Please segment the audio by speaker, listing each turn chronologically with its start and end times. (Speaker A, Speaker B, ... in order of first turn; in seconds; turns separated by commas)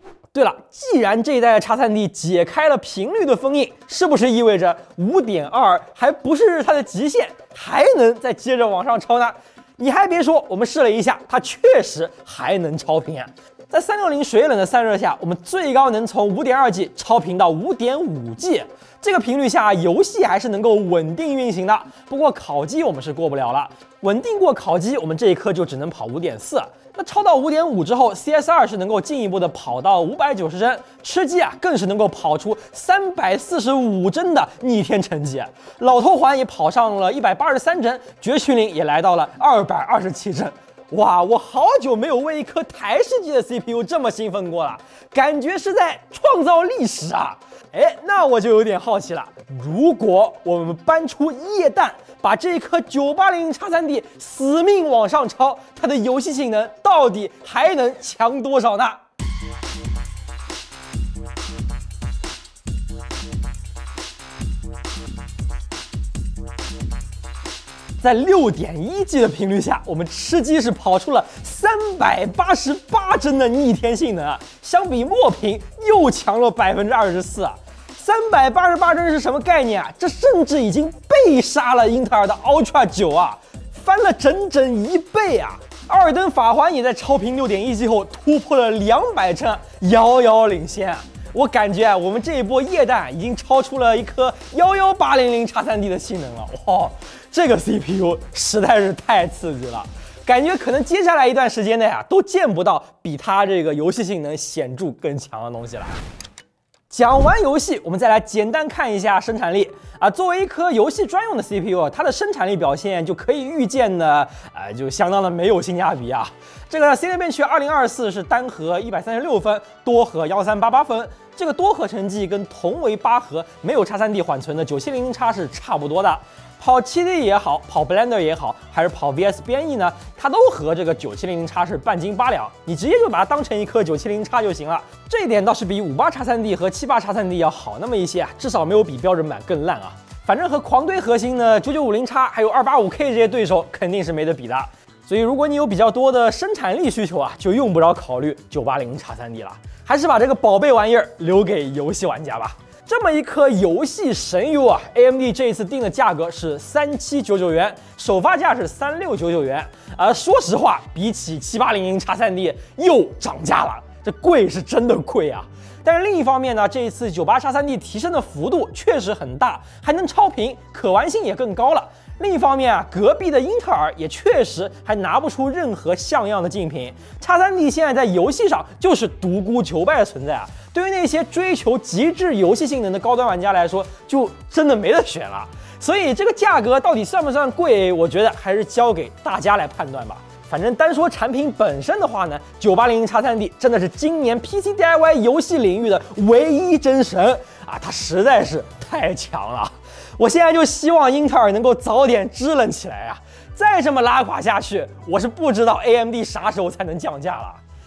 Speaker A: 0.3-59.0, Speaker A: 68.0-106.0, Speaker A: 106.9-207.6